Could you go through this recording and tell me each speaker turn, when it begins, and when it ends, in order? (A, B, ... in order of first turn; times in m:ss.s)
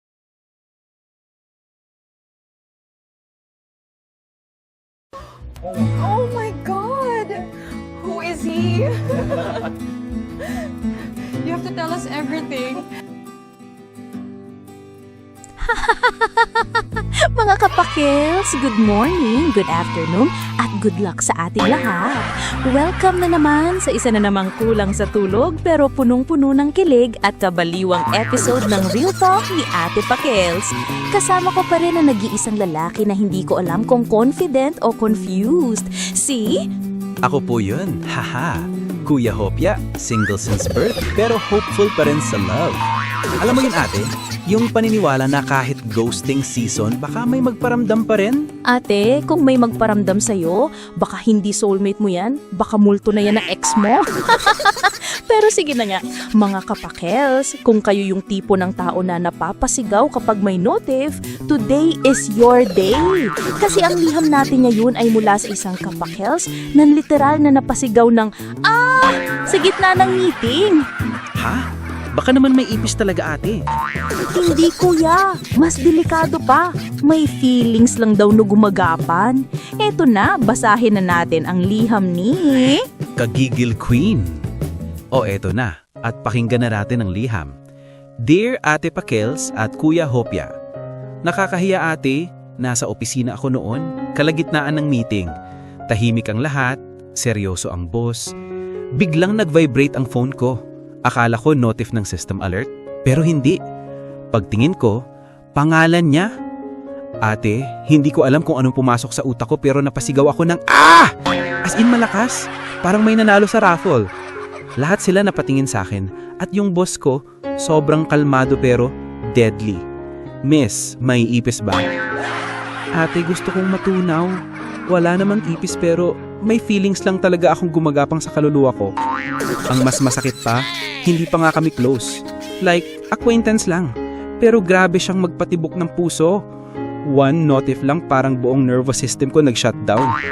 0:05.8-0:07.4 A
0:08.0-0:09.4 A
0:11.4-0:12.8 A
0:15.6-0:36.6 B
0:37.2-0:42.8 C
0:43.4-0:48.4 C
0:48.7-1:10.8 B
1:11.4-1:11.6 C
1:12.1-1:13.6 C
1:14.3-1:22.8 B
1:23.2-1:24.4 C
1:25.1-1:27.5 C
1:28.2-1:30.5 C
1:31.2-1:35.3 C
1:35.9-1:38.3 C
1:39.0-1:43.6 C
1:44.3-1:45.0 C
1:45.6-1:46.3 C
1:47.2-1:51.1 C
1:51.6-1:54.0 C
1:54.8-1:59.8 C
2:00.5-2:01.9 C
2:03.0-2:08.9 C
2:09.7-2:16.4 C
2:17.1-2:20.1 C